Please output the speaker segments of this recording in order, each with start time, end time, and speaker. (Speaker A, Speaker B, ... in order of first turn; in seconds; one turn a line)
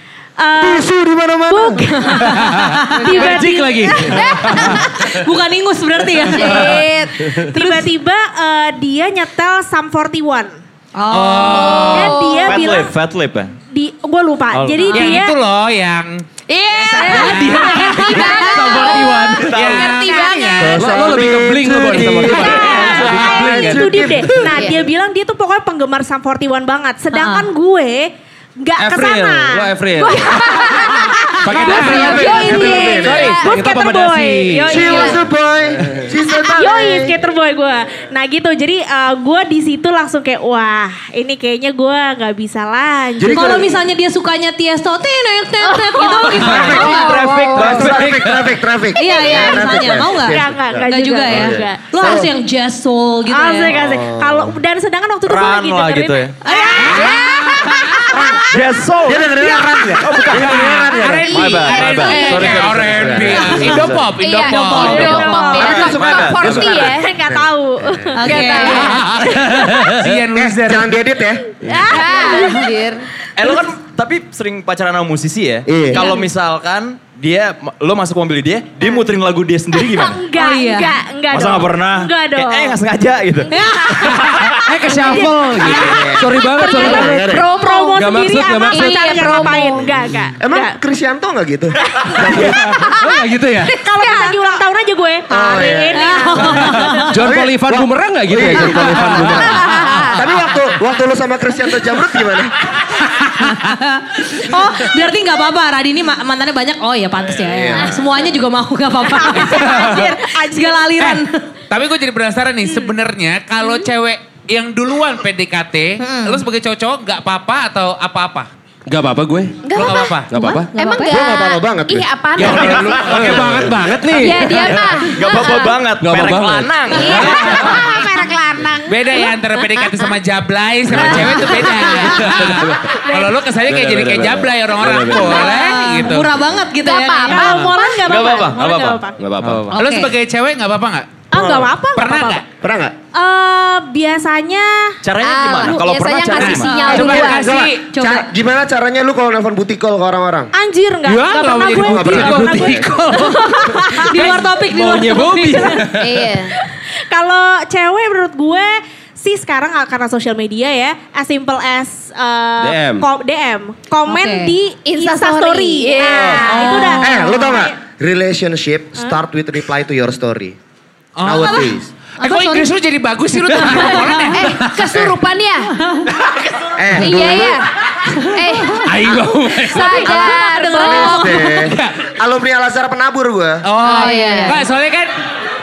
Speaker A: 0.4-0.9
Speaker B: 0.6-1.9
Speaker A: 1.5-2.4
Speaker C: 2.1-3.3
Speaker D: 2.2-5.2
Speaker A: 3.0-4.5
Speaker E: 4.1-4.8
Speaker C: 4.5-6.8
Speaker E: 6.3-7.5
Speaker D: 6.5-6.8
Speaker A: 7.5-10.6
Speaker C: 7.5-7.8
Speaker C: 10.9-11.9
Speaker F: 11.1-12.3
Speaker E: 11.5-12.7
Speaker A: 11.7-12.9
Speaker G: 12.4-13.5
Speaker A: 13.7-15.4
Speaker G: 14.5-14.9
Speaker F: 14.9-18.3
Speaker E: 16.5-20.9
Speaker C: 17.1-18.2
Speaker D: 17.2-19.6
Speaker G: 19.4-19.9
Speaker F: 19.5-20.8
Speaker A: 20.0-20.6
Speaker B: 20.6-24.4
Speaker D: 20.8-24.6
Speaker A: 22.3-35.2
Speaker E: 22.6-22.9
Speaker E: 24.5-24.9
Speaker C: 27.1-27.5
Speaker D: 28.8-30.4
Speaker E: 30.0-33.6
Speaker D: 31.4-35.1
Speaker B: 31.8-33.3
Speaker B: 34.7-37.1
Speaker E: 34.9-35.2
Speaker D: 35.8-36.1
Speaker A: 36.4-43.8
Speaker B: 43.2-43.7
Speaker C: 43.3-47.2
Speaker E: 45.6-48.0
Speaker B: 46.5-47.0
Speaker G: 46.5-48.5
Speaker B: 47.5-52.3
Speaker C: 49.0-53.8
Speaker A: 49.0-52.3
Speaker A: 53.3-58.5
Speaker B: 53.7-54.5
Speaker G: 55.3-56.4
Speaker C: 56.5-57.1
Speaker F: 56.9-57.4
Speaker E: 56.9-57.5
Speaker B: 58.1-61.4
Speaker G: 58.5-59.4
Speaker G: 60.0-64.2
Speaker F: 60.3-65.4
Speaker E: 61.3-62.6
Speaker A: 62.1-62.5
Speaker B: 62.4-63.6
Speaker E: 64.2-67.1
Speaker A: 64.5-66.0
Speaker G: 64.7-66.8
Speaker B: 65.5-68.1
Speaker A: 66.6-68.9
Speaker C: 68.1-69.0
Speaker E: 68.2-69.1
Speaker F: 68.7-71.0
Speaker D: 69.2-70.2
Speaker B: 70.4-71.6
Speaker A: 71.6-72.6
Speaker E: 71.9-73.1
Speaker G: 73.4-80.3
Speaker B: 75.7-76.1
Speaker A: 79.7-82.8
Speaker C: 80.3-81.0
Speaker G: 81.3-84.6
Speaker C: 83.5-84.1
Speaker A: 83.6-90.8
Speaker D: 84.6-87.2
Speaker B: 85.7-87.5
Speaker E: 85.8-86.0
Speaker E: 86.6-88.0
Speaker D: 88.0-89.5
Speaker E: 88.7-89.9
Speaker B: 90.4-92.6
Speaker E: 91.9-92.2
Speaker D: 92.3-93.7
Speaker E: 92.8-94.4
Speaker A: 93.7-97.1
Speaker B: 95.3-96.1
Speaker C: 95.9-97.2
Speaker D: 96.6-99.7
Speaker B: 97.1-102.5
Speaker A: 98.8-99.2
Speaker A: 99.8-100.0
Speaker C: 103.3-111.5
Speaker B: 107.4-108.2
Speaker A: 109.0-110.9
Speaker F: 109.6-110.2
Speaker F: 111.0-118.5
Speaker E: 113.6-113.9
Speaker C: 116.0-116.4
Speaker D: 118.9-119.6
Speaker E: 119.6-120.2
Speaker F: 119.7-120.3
Speaker D: 120.3-120.7
Speaker C: 120.3-121.2
Speaker E: 120.8-122.8
Speaker B: 121.1-122.5
Speaker D: 122.4-125.2
Speaker G: 122.4-123.9
Speaker F: 122.5-123.4
Speaker E: 124.1-125.8
Speaker G: 125.1-127.8
Speaker D: 126.0-127.7
Speaker E: 126.9-130.1
Speaker F: 127.2-127.8
Speaker F: 128.9-136.3
Speaker E: 130.9-132.4
Speaker D: 130.9-133.0
Speaker D: 133.6-135.4
Speaker A: 135.3-136.0
Speaker E: 135.4-135.8
Speaker C: 135.4-137.5
Speaker E: 136.8-138.5
Speaker A: 137.3-139.1
Speaker F: 137.3-137.7
Speaker G: 138.0-139.8
Speaker D: 139.2-139.7
Speaker C: 139.7-140.1
Speaker F: 139.8-141.4
Speaker A: 141.3-142.4
Speaker G: 141.4-141.7
Speaker F: 141.9-142.4
Speaker B: 142.6-142.9
Speaker A: 143.1-145.0
Speaker G: 145.0-146.9
Speaker E: 145.2-147.6
Speaker F: 146.4-147.8
Speaker C: 146.5-148.3
Speaker B: 147.4-150.5
Speaker A: 150.5-153.4
Speaker D: 151.1-151.4
Speaker F: 151.1-153.4
Speaker B: 151.9-152.9
Speaker D: 152.1-156.2
Speaker C: 153.3-155.9
Speaker F: 154.0-154.5
Speaker E: 155.9-156.5
Speaker A: 157.1-167.7
Speaker D: 162.6-163.1
Speaker C: 164.1-164.5
Speaker E: 164.8-166.6
Speaker C: 166.5-167.2
Speaker B: 167.0-170.6
Speaker F: 171.2-174.5
Speaker B: 171.2-171.9
Speaker C: 171.5-172.7
Speaker C: 173.6-174.4
Speaker E: 173.9-175.7
Speaker B: 174.9-175.2
Speaker C: 175.8-176.1
Speaker B: 176.8-177.6
Speaker E: 176.9-178.8
Speaker D: 178.8-180.1
Speaker E: 179.7-181.5
Speaker C: 179.7-181.4
Speaker B: 180.7-183.6
Speaker F: 181.6-181.9
Speaker F: 183.6-185.1
Speaker E: 183.8-184.6
Speaker C: 184.2-184.6